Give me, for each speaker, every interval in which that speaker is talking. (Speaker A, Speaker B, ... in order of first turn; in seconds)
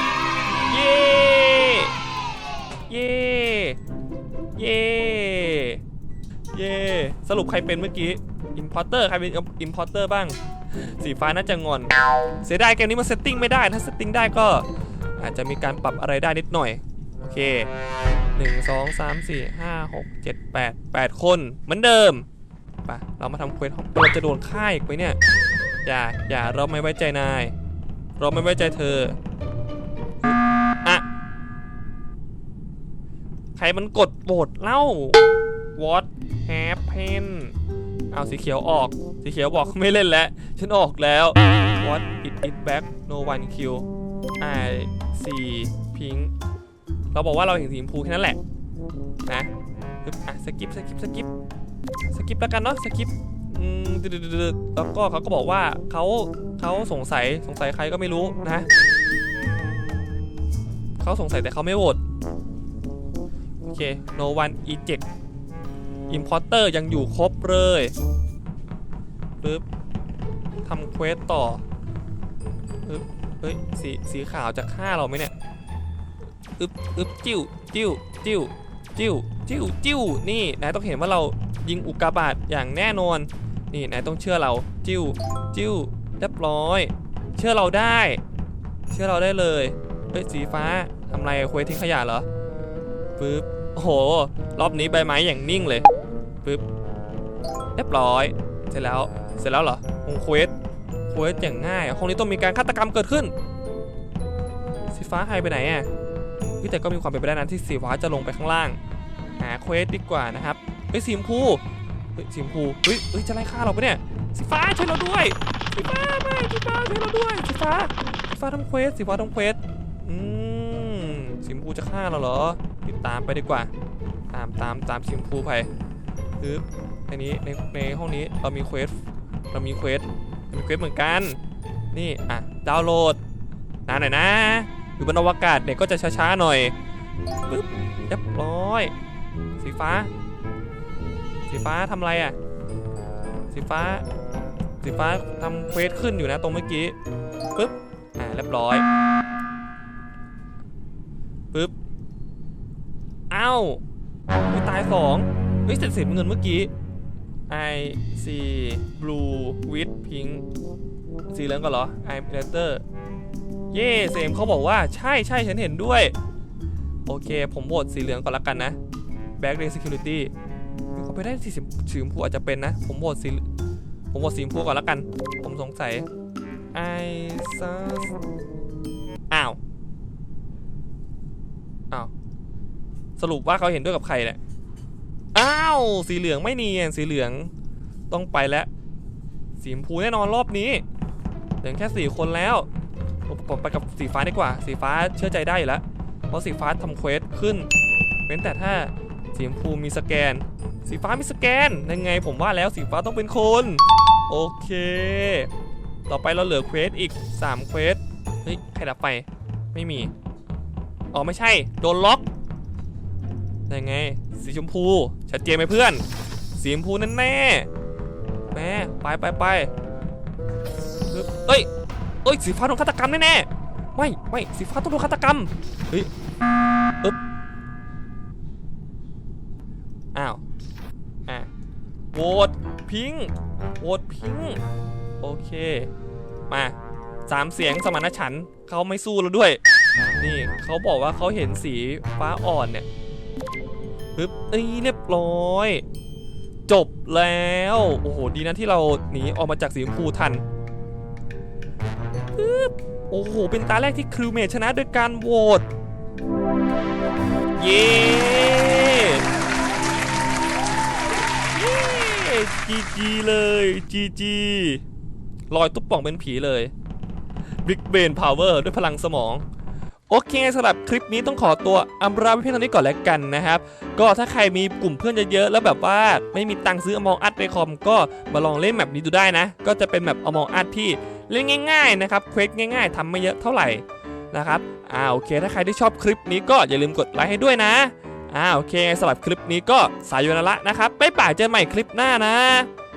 Speaker A: 0.7-1.9, 2.9-3.8, 4.6-5.8, 6.5-14.7, 15.2-17.7, 18.4-22.3, 22.9-25.2, 25.9-27.5, 28.2-29.2, 30.2-31.1, 33.6-35.2, 35.8-37.5, 38.1-43.9, 44.4-46.3, 47.1-48.4, 50.0-51.3, 52.1-58.7, 61.0-62.0, 63.6-65.0, 66.1-68.0, 70.7-71.6, 72.8-75.3, 76.6-88.2, 88.9-92.3, 93.2-95.9, 97.8-100.5, 101.1-103.3, 104.9-105.9, 106.5-108.8, 109.4-111.6, 112.2-123.7, 124.3-125.7, 126.4-131.4, 131.9-133.2, 133.9-136.7, 137.4-138.9, 139.6-140.1, 141.5-142.4, 143.5-144.1, 144.8-147.0, 147.6-148.8, 153.3-153.8, 154.5-156.7, 157.5-160.4, 161.3-162.8, 163.7-166.2, 167.1-168.8, 169.4-170.3, 170.9-173.4, 174.1-176.1, 176.7-178.2, 179.3-179.6, 183.2-184.4, 185.3-187.5, 188.1-188.7, 189.6-190.8, 191.6-192.7, 193.3-197.7, 198.3-205.5, 206.1-210.1, 211.1-212.3, 213.7-216.0, 216.6-217.7, 218.5-219.7, 221.1-221.7, 222.2-226.1, 230.2-230.4, 232.1-234.6, 235.2-235.9, 236.5-236.8, 237.3-239.6, 240.2-242.9, 244.2-245.8, 246.7-250.4, 252.3-255.7, 257.6-259.3, 261.5-264.8, 265.5-266.7, 267.6-269.4, 270.1-292.7